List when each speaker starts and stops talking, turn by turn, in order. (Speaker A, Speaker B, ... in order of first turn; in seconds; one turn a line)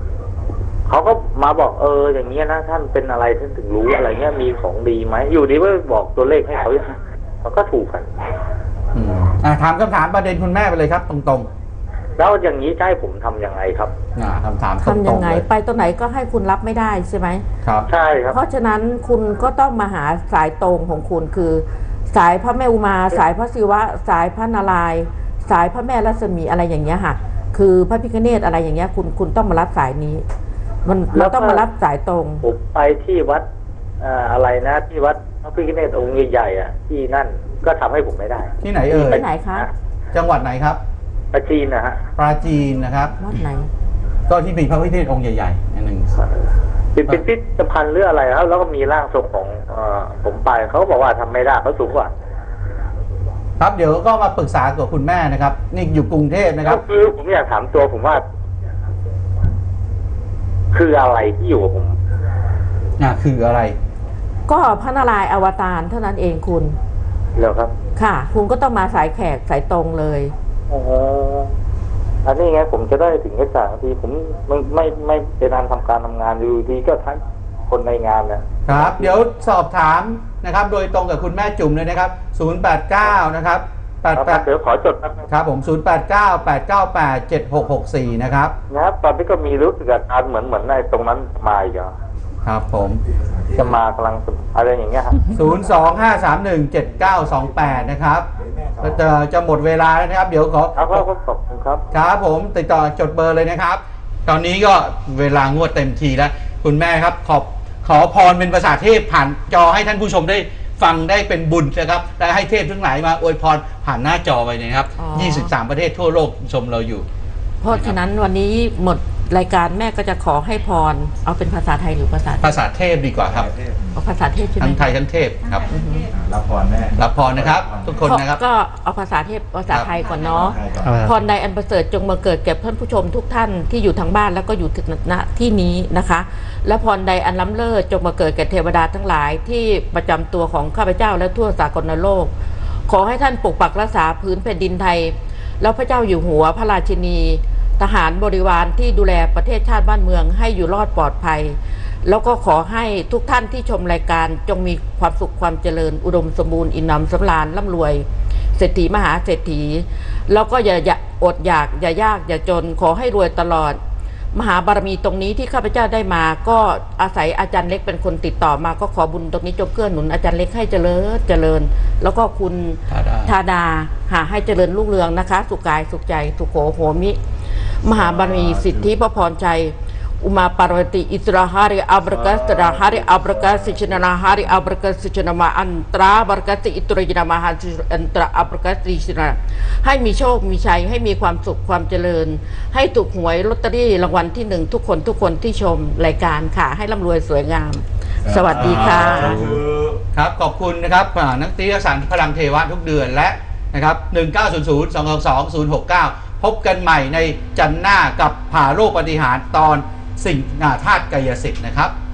Speaker A: 0.9-8.1
Speaker B: 8.9-11.5
Speaker A: 12.2-13.9
Speaker B: 14.2-15.4
Speaker C: 14.8-17.4
Speaker A: 17.9-18.4
Speaker C: 18.3-30.2
Speaker C: 30.9-32.4
Speaker A: 31.1-31.6
Speaker A: 32.4-33.5
Speaker A: 34.0-39.7
Speaker B: 38.6-39.2
Speaker C: 38.9-39.7
Speaker B: 40.1-40.8
Speaker A: 41.3-42.0
Speaker B: 42.2-43.1
Speaker C: 43.2-43.7
Speaker B: 44.3-46.1
Speaker A: 47.0-52.1
Speaker B: 53.6-56.8
Speaker A: 56.6-58.2
Speaker A: 60.7-61.9
Speaker B: 63.0-63.8
Speaker C: 64.5-66.8
Speaker A: 67.4-67.7
Speaker C: 68.0-70.3
Speaker A: 70.7-71.5
Speaker A: 72.2-79.1
Speaker B: 78.7-84.5
Speaker A: 84.2-85.3
Speaker B: 85.3-88.5
Speaker A: 88.7-91.9
Speaker B: 92.5-93.0
Speaker A: 93.6-95.3
Speaker B: 95.3-98.3
Speaker D: 95.4-95.9
Speaker D: 97.1-97.7
Speaker D: 98.4-99.0
Speaker B: 98.8-101.0
Speaker A: 100.8-101.8
Speaker B: 101.9-117.1
Speaker C: 115.0-115.5
Speaker C: 117.6-122.6
Speaker B: 117.7-118.0
Speaker B: 122.4-123.5
Speaker D: 123.2-123.9
Speaker C: 124.0-125.0
Speaker B: 124.6-125.7
Speaker C: 125.7-126.1
Speaker D: 126.1-128.1
Speaker B: 127.0-128.4
Speaker C: 128.0-142.3
Speaker D: 130.3-131.1
Speaker B: 130.8-131.1
Speaker C: 142.9-163.8
Speaker C: 164.3-177.2
Speaker B: 172.9-173.3
Speaker C: 177.8-199.4
Speaker D: 177.9-178.8
Speaker D: 182.1-183.9
Speaker D: 198.3-199.9
Speaker B: 198.6-199.6
Speaker B: 200.1-211.9